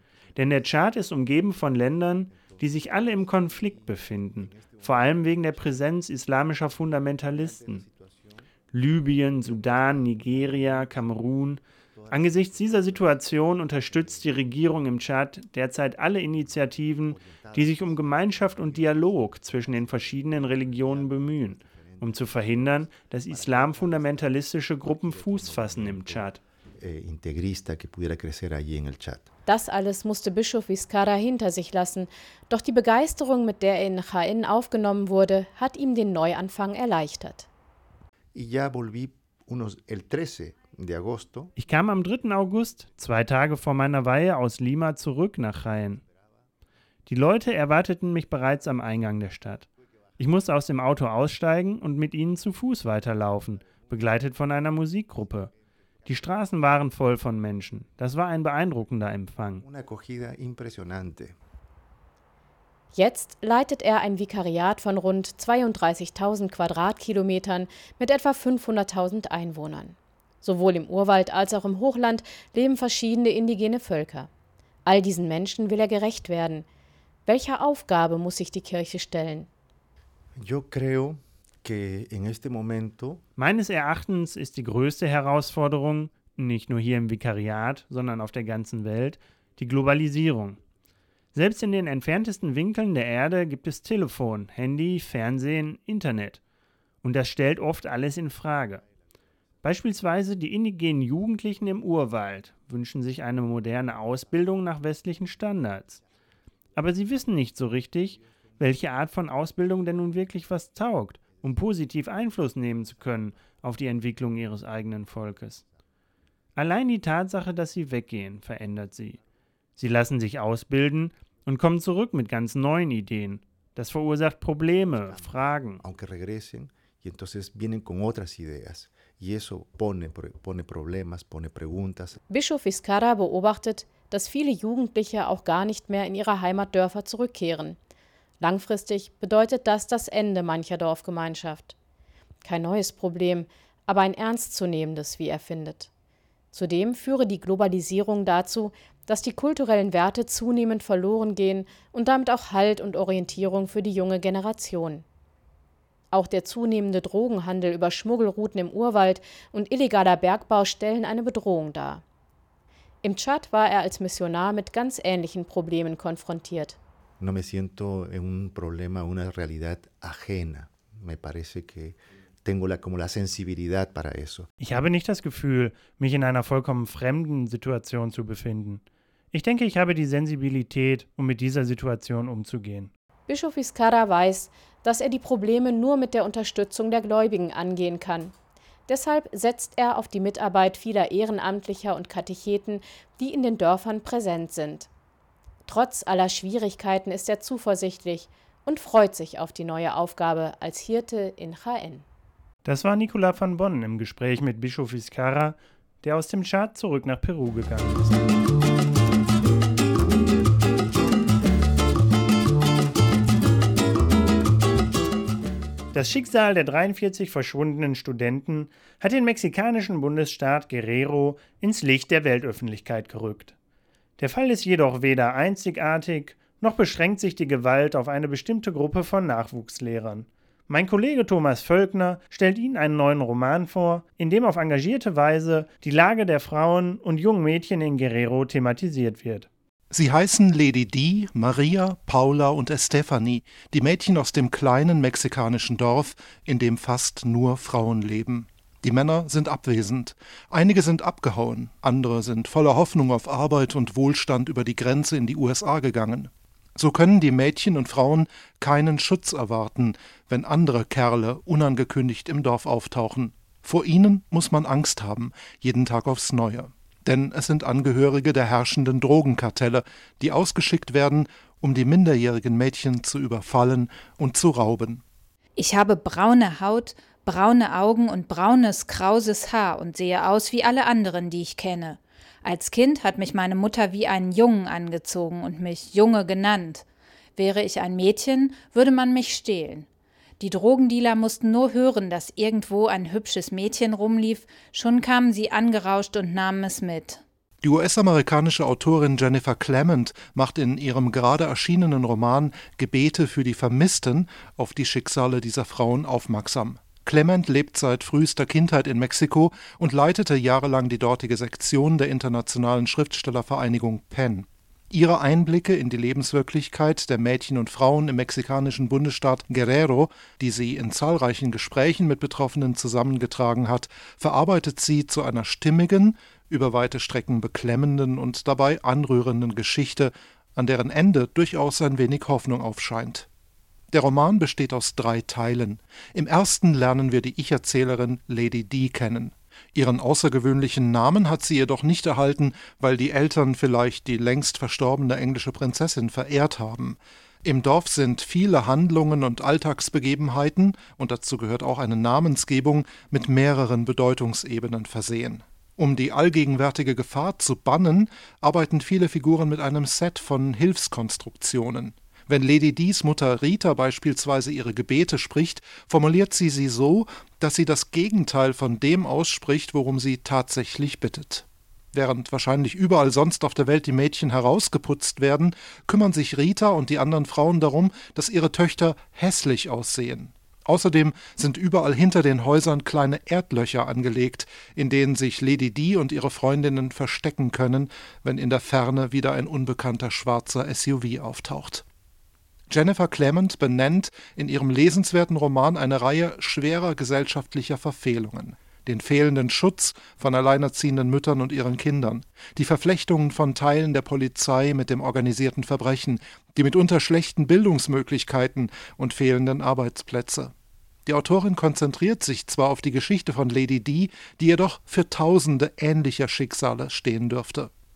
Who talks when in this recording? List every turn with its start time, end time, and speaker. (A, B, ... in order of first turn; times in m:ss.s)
0:00.3-0:07.8 A
0:02.3-0:05.5 B
0:07.4-0:08.4 B
0:08.7-0:26.4 A
0:09.5-0:10.9 B
0:11.9-0:13.1 B
0:13.9-0:14.2 B
0:17.0-0:29.3 B
0:29.5-0:37.5 C
0:38.3-0:41.5 B
0:41.6-0:46.0 A
0:47.1-0:55.5 A
0:56.0-0:59.6 A
0:59.6-1:01.4 B
1:02.9-1:14.3 C
1:14.8-1:16.6 C
1:17.2-1:19.5 C
1:20.4-1:23.2 B
1:23.4-1:30.6 A
1:31.3-1:36.4 A
1:37.0-1:38.8 A
1:39.6-1:46.0 A
1:46.8-1:55.6 A
1:56.6-1:59.2 A
1:59.8-2:05.8 A
2:05.1-2:12.2 B
2:12.3-2:17.8 C
2:18.4-2:21.7 C
2:22.4-2:25.9 C
2:26.5-2:35.0 C
2:36.1-2:42.0 C
2:43.0-2:46.8 C
2:47.2-2:54.5 B
2:54.6-3:02.9 A
3:03.3-3:08.3 C
3:08.9-3:14.9 C
3:15.6-3:22.0 C
3:22.6-3:28.2 A
3:35.9-3:43.5 A
3:44.2-3:59.5 A
3:59.9-4:35.0 D
4:35.6-4:46.8 E
4:47.4-4:49.9 E
4:50.4-4:57.2 E
4:57.6-5:33.3 D
5:33.9-6:31.8 D
6:32.7-6:50.5 D
6:51.0-6:57.7 D